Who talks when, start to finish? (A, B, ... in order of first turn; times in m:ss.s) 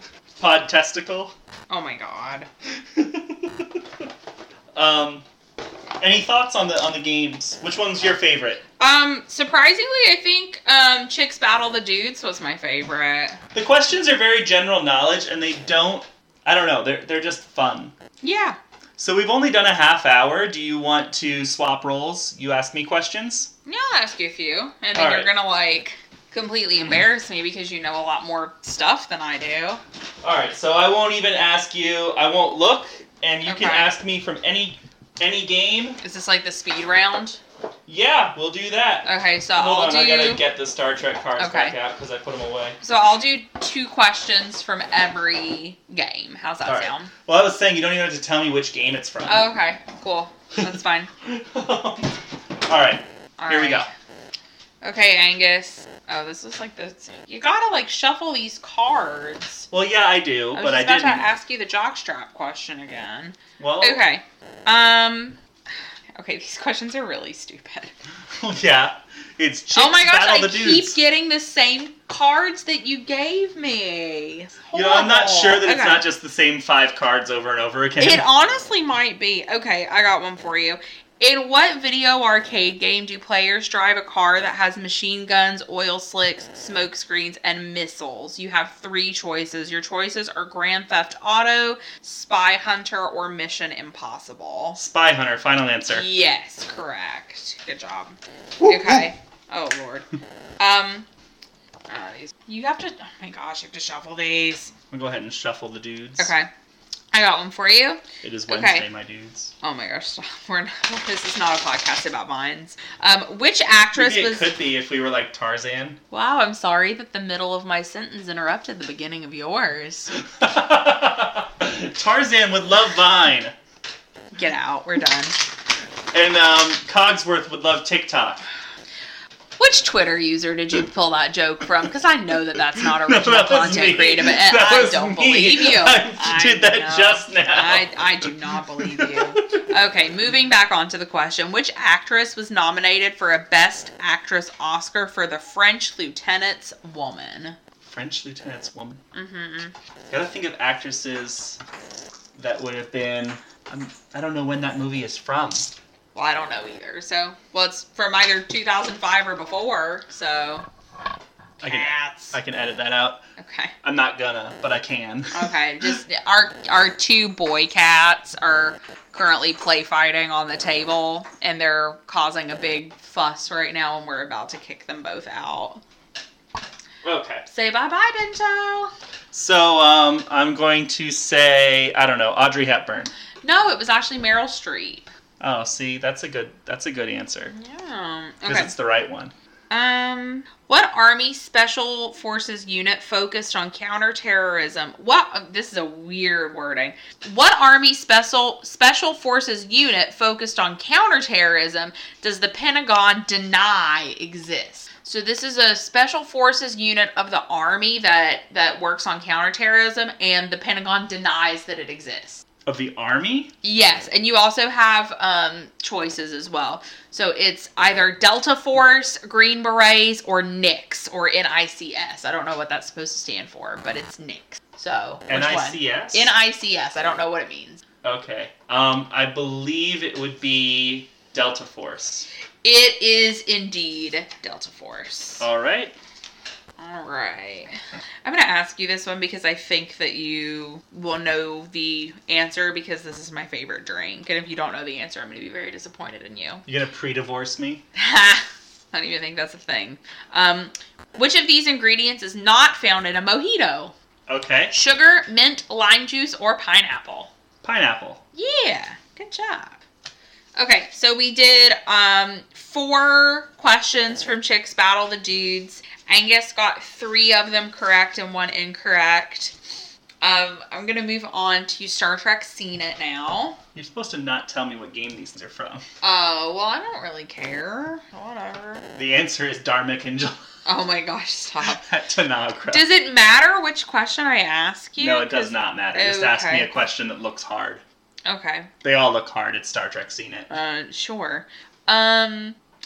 0:00.4-0:01.3 A
0:01.7-0:02.5 B
0:02.9-0:03.8 A
0:04.7-0:05.2 A
0:06.0-0:08.6 A
0:08.8-0:13.4 B
0:13.5-0:17.9 A
0:18.2-0:18.6 B
0:19.0-0:23.5 A
0:23.6-0:29.8 B
0:24.9-0:25.3 A
0:30.2-0:36.0 A
0:33.4-0:33.9 B
0:36.0-0:37.4 B
0:37.9-0:42.8 A
0:39.0-0:40.4 B
0:41.4-0:41.8 B
0:42.8-0:47.1 B
0:46.6-0:49.4 A
0:49.2-0:51.1 B
0:51.2-0:53.9 A
0:53.4-0:53.9 B
0:54.8-0:59.7 B
0:59.7-1:01.3 A
1:00.5-1:07.9 B
1:03.6-1:04.0 A
1:08.4-1:11.0 A
1:09.7-1:16.0 B
1:14.7-1:18.2 A
1:18.0-1:34.8 B
1:34.8-1:36.0 A
1:35.9-1:40.1 B
1:38.6-1:39.0 A
1:40.6-1:41.1 B
1:41.9-1:44.7 B
1:44.9-1:46.3 A
1:46.2-1:46.5 B
1:47.1-1:48.9 B
1:48.2-1:49.5 A
1:49.6-1:54.5 B
1:53.9-1:56.0 A
1:56.1-2:00.1 B
2:00.2-2:03.5 A
2:04.3-2:05.4 B
2:06.1-2:08.4 A
2:09.6-2:27.6 B
2:12.8-2:19.7 A
2:27.8-2:29.0 A
2:29.1-2:29.7 B
2:30.1-2:31.6 A
2:32.4-2:35.7 A
2:36.1-2:40.6 B
2:41.6-2:42.3 B
2:41.6-2:43.3 A
2:43.4-2:43.7 B
2:43.8-2:45.9 A
2:45.3-2:55.8 B
2:57.0-2:57.4 A
2:57.4-2:58.9 B
2:59.3-3:03.1 A
3:03.4-3:05.1 B
3:05.4-3:07.5 A
3:07.5-3:08.7 B
3:08.4-3:09.3 A
3:09.7-3:32.4 B
3:32.6-3:33.5 A
3:33.6-3:47.8 B
3:45.3-3:46.3 A
3:48.0-3:52.3 A
3:52.6-3:55.4 B
3:55.4-3:55.9 A
3:56.8-4:06.6 B
4:06.7-4:07.8 A
4:07.9-4:13.9 B
4:14.3-4:14.7 A
4:14.7-4:17.3 B
4:17.6-4:18.2 A
4:18.3-4:19.8 B
4:20.6-4:29.6 B
4:30.2-4:33.6 B
4:33.7-4:35.8 A
4:36.0-4:38.8 B
4:38.9-4:40.4 A
4:40.6-4:41.8 B
4:41.7-4:42.8 A
4:42.7-4:46.7 B
4:45.0-4:47.8 A
4:48.2-4:48.7 B
4:48.8-4:50.5 A
4:50.5-4:52.6 B